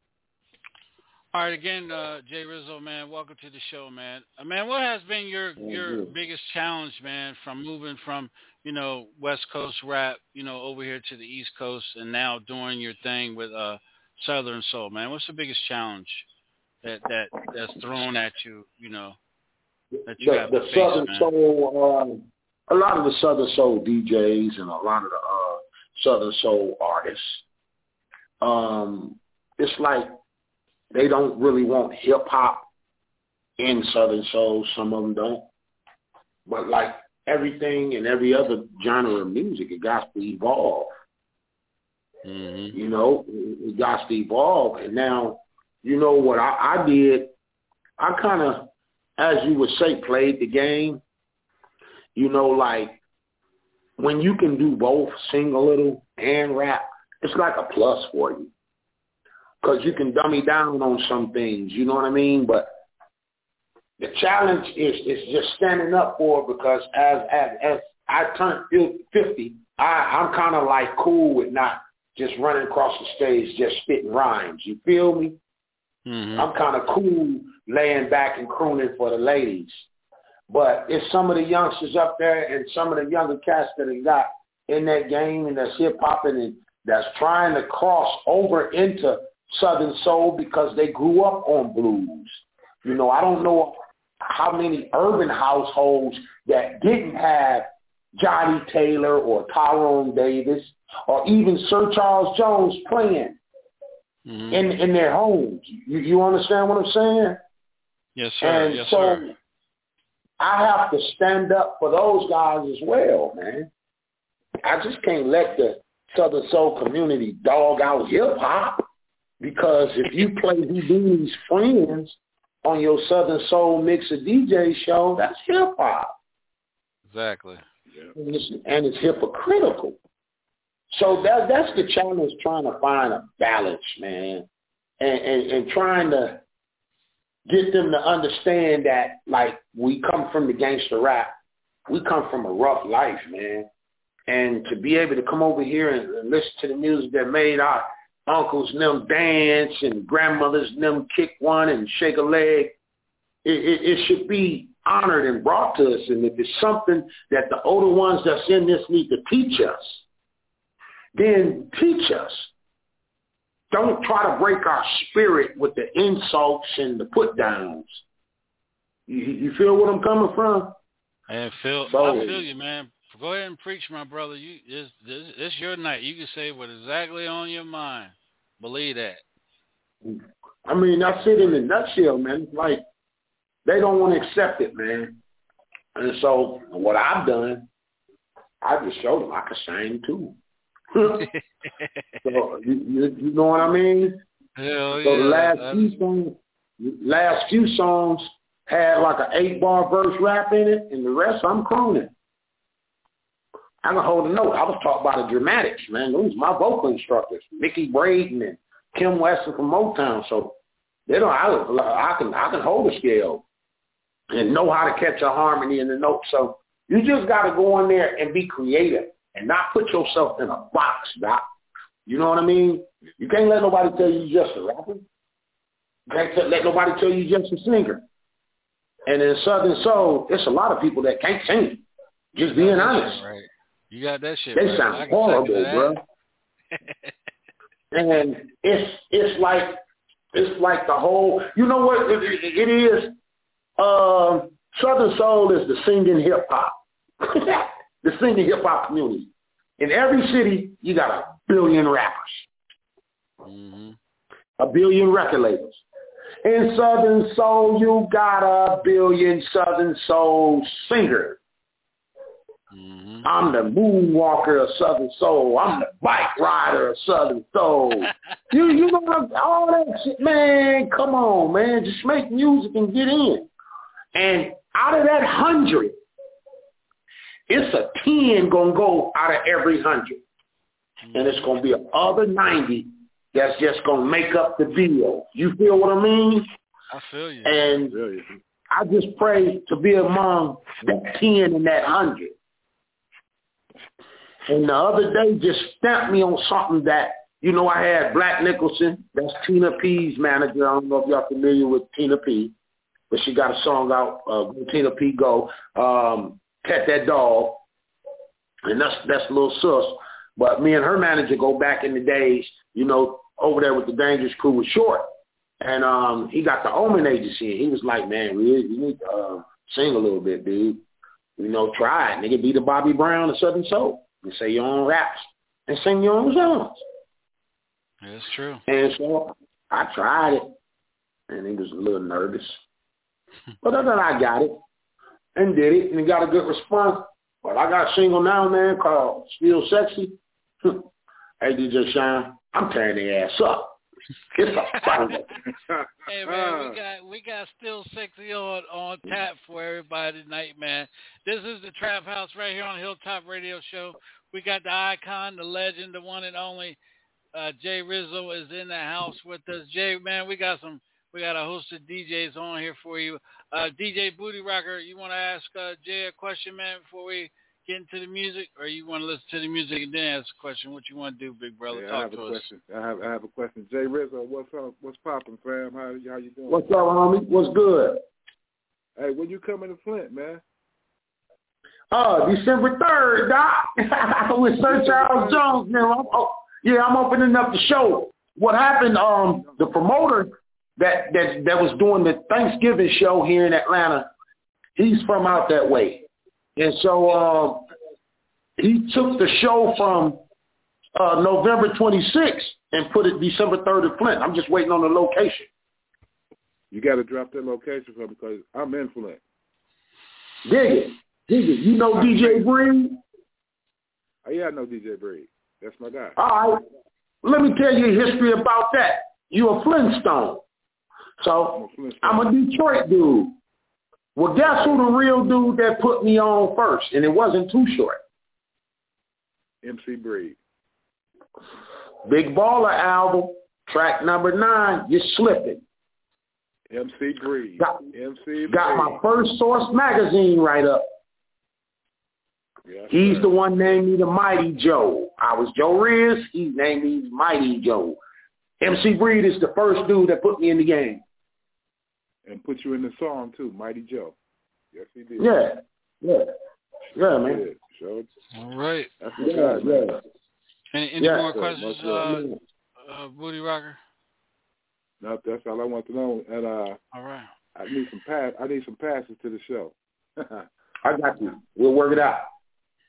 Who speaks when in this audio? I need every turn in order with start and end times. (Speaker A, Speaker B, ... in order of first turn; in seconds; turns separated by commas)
Speaker A: 1.3-16.2, Speaker B: 5.6-6.1, Speaker A: 16.8-19.2, Speaker A: 20.1-21.3, Speaker B: 20.2-27.4, Speaker B: 28.4-30.1, Speaker B: 30.9-32.6, Speaker B: 33.6-35.5, Speaker B: 36.5-40.9, Speaker A: 42.2-42.8, Speaker B: 42.7-47.3, Speaker B: 48.0-51.0, Speaker B: 52.1-53.0, Speaker B: 54.0-58.5, Speaker B: 59.6-62.7, Speaker B: 64.0-75.4, Speaker A: 76.0-76.5, Speaker B: 76.3-79.8, Speaker B: 80.5-103.4, Speaker A: 104.2-104.7, Speaker B: 104.5-107.4, Speaker A: 108.2-109.3, Speaker B: 108.4-109.3, Speaker B: 110.4-113.7, Speaker B: 114.6-118.8, Speaker B: 119.4-126.1, Speaker A: 127.1-127.6, Speaker B: 128.2-130.0, Speaker B: 130.9-134.5, Speaker B: 135.0-136.4, Speaker B: 137.5-141.3, Speaker B: 141.9-143.7, Speaker B: 144.3-152.7, Speaker B: 153.4-160.0, Speaker B: 161.2-162.5, Speaker B: 163.7-168.0, Speaker B: 169.1-170.7, Speaker A: 171.3-179.2, Speaker B: 171.8-172.4, Speaker B: 180.0-182.8, Speaker B: 183.6-185.2, Speaker B: 185.9-187.7, Speaker B: 188.6-190.3, Speaker B: 190.9-191.2, Speaker A: 191.2-192.0, Speaker B: 192.2-194.2, Speaker A: 194.6-195.9, Speaker B: 194.9-202.1, Speaker B: 203.8-210.6, Speaker B: 211.1-213.4, Speaker B: 214.3-221.4, Speaker B: 222.1-225.0, Speaker B: 226.1-228.0, Speaker B: 229.1-233.2, Speaker A: 232.4-235.9, Speaker B: 234.5-236.0, Speaker A: 236.7-237.1, Speaker B: 237.9-239.8, Speaker B: 240.3-243.1, Speaker B: 243.8-252.5, Speaker A: 253.4-254.0, Speaker B: 254.6-255.8, Speaker B: 256.4-261.4, Speaker A: 262.7-263.3, Speaker B: 263.2-273.5, Speaker B: 274.1-275.9, Speaker B: 277.5-280.2, Speaker A: 281.0-281.4, Speaker B: 281.1-286.5, Speaker A: 286.9-287.6, Speaker B: 287.4-287.9, Speaker C: 287.9-288.2, Speaker B: 288.7-292.3, Speaker B: 294.5-302.5, Speaker B: 303.1-307.6, Speaker B: 308.6-315.1, Speaker B: 315.6-320.8, Speaker B: 321.4-326.8, Speaker A: 328.0-328.6, Speaker B: 328.7-330.5, Speaker B: 331.3-332.6, Speaker B: 333.6-334.5, Speaker B: 335.4-340.9, Speaker B: 341.4-343.8, Speaker B: 344.4-345.2, Speaker A: 346.1-356.8, Speaker C: 346.2-346.8, Speaker A: 357.3-372.5, Speaker C: 371.7-376.6, Speaker B: 376.5-378.0, Speaker C: 379.0-380.4, Speaker B: 381.9-394.1, Speaker C: 384.7-385.4, Speaker B: 394.8-396.0, Speaker B: 396.6-397.6, Speaker B: 398.6-400.2, Speaker B: 400.9-405.5, Speaker C: 406.7-409.2, Speaker B: 410.4-413.0, Speaker C: 411.9-412.4, Speaker C: 414.2-416.2, Speaker B: 416.2-416.6, Speaker B: 417.2-420.4, Speaker B: 421.2-423.3, Speaker C: 421.5-422.3, Speaker B: 424.1-428.0, Speaker C: 429.6-430.4, Speaker B: 432.1-435.6, Speaker C: 436.7-439.0, Speaker B: 437.6-437.8, Speaker B: 438.5-440.9, Speaker C: 442.7-443.3, Speaker B: 442.9-448.0, Speaker B: 448.6-451.0, Speaker C: 452.2-454.1, Speaker C: 454.7-455.4, Speaker B: 455.2-456.3, Speaker B: 456.9-457.4, Speaker C: 457.1-458.1, Speaker A: 458.3-458.9, Speaker C: 459.0-459.9, Speaker B: 459.2-460.0, Speaker A: 460.7-462.3, Speaker B: 461.0-462.4, Speaker C: 461.3-462.1, Speaker A: 462.8-463.8, Speaker C: 465.0-466.8, Speaker A: 466.9-467.3, Speaker C: 467.6-470.4, Speaker B: 470.8-472.3